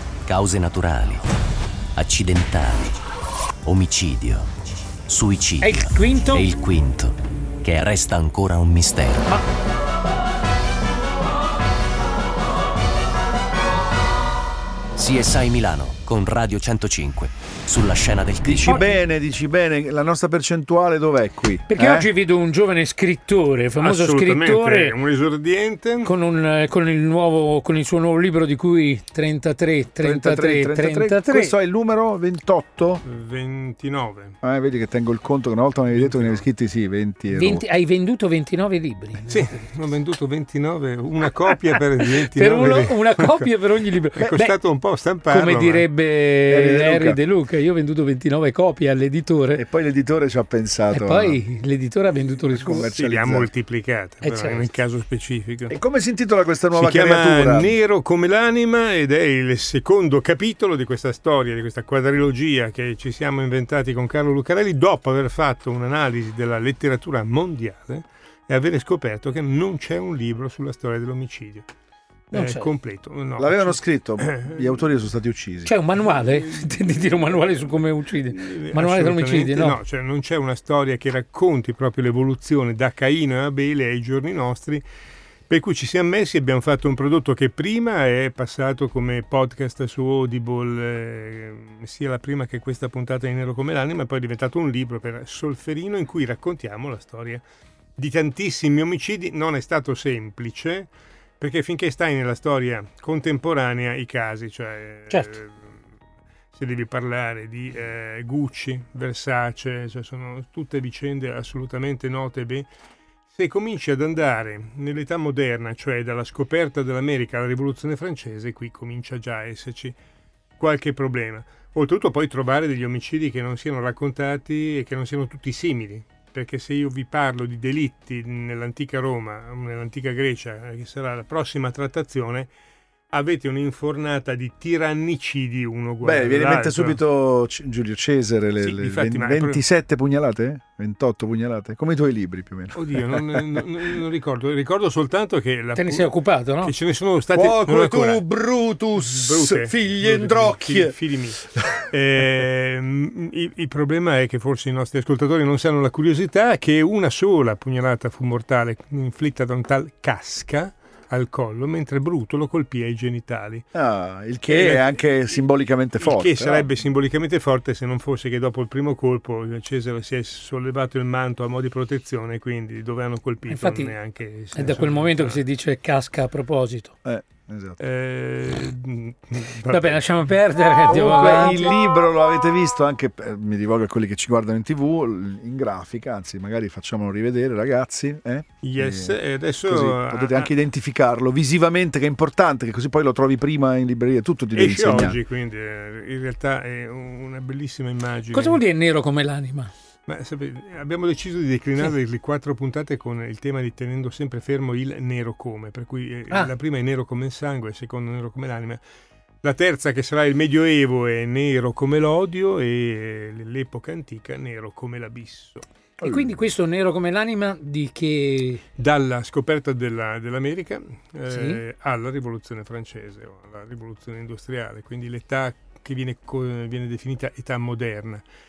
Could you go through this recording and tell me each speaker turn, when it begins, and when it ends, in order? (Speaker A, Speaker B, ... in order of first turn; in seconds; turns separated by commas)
Speaker A: 0.2-1.2, Speaker A: 1.9-2.9, Speaker A: 3.6-4.5, Speaker A: 5.1-9.3, Speaker B: 5.6-6.5, Speaker A: 14.9-18.8, Speaker C: 18.4-22.1, Speaker B: 18.6-18.9, Speaker B: 21.7-24.9, Speaker D: 23.8-26.1, Speaker B: 26.0-31.6, Speaker C: 30.0-33.0, Speaker D: 33.0-34.4, Speaker C: 34.4-37.6, Speaker D: 35.9-36.5, Speaker B: 37.3-39.6, Speaker D: 39.3-43.5, Speaker B: 42.3-49.6, Speaker D: 44.1-45.9, Speaker C: 46.5-47.2, Speaker C: 49.5-51.4, Speaker B: 50.9-52.9, Speaker C: 52.5-53.5, Speaker D: 52.6-55.7, Speaker B: 54.2-54.7, Speaker C: 55.7-57.8, Speaker D: 56.7-71.7, Speaker B: 72.3-72.7, Speaker D: 72.3-74.8, Speaker C: 73.4-75.7, Speaker B: 75.6-79.8, Speaker D: 76.0-84.8, Speaker D: 85.5-97.4, Speaker D: 98.0-105.7, Speaker B: 105.1-105.4, Speaker D: 106.5-112.7, Speaker D: 113.3-120.0, Speaker D: 120.6-132.5, Speaker D: 133.1-137.0, Speaker C: 136.0-143.4, Speaker D: 138.6-139.6, Speaker D: 142.8-148.3, Speaker B: 145.8-146.7, Speaker C: 147.3-151.0, Speaker D: 148.9-163.7, Speaker C: 163.7-166.7, Speaker D: 164.5-165.2, Speaker D: 166.0-175.4, Speaker B: 173.5-174.0, Speaker B: 174.5-176.9, Speaker C: 177.0-177.8, Speaker D: 177.8-180.4, Speaker B: 179.7-181.7, Speaker C: 180.8-195.2, Speaker D: 180.9-181.6, Speaker D: 188.6-190.5, Speaker D: 194.5-198.6, Speaker B: 198.3-199.7, Speaker D: 200.1-208.8, Speaker D: 209.4-215.6, Speaker C: 216.0-216.4, Speaker B: 216.0-218.6, Speaker D: 218.8-228.2, Speaker B: 221.3-221.6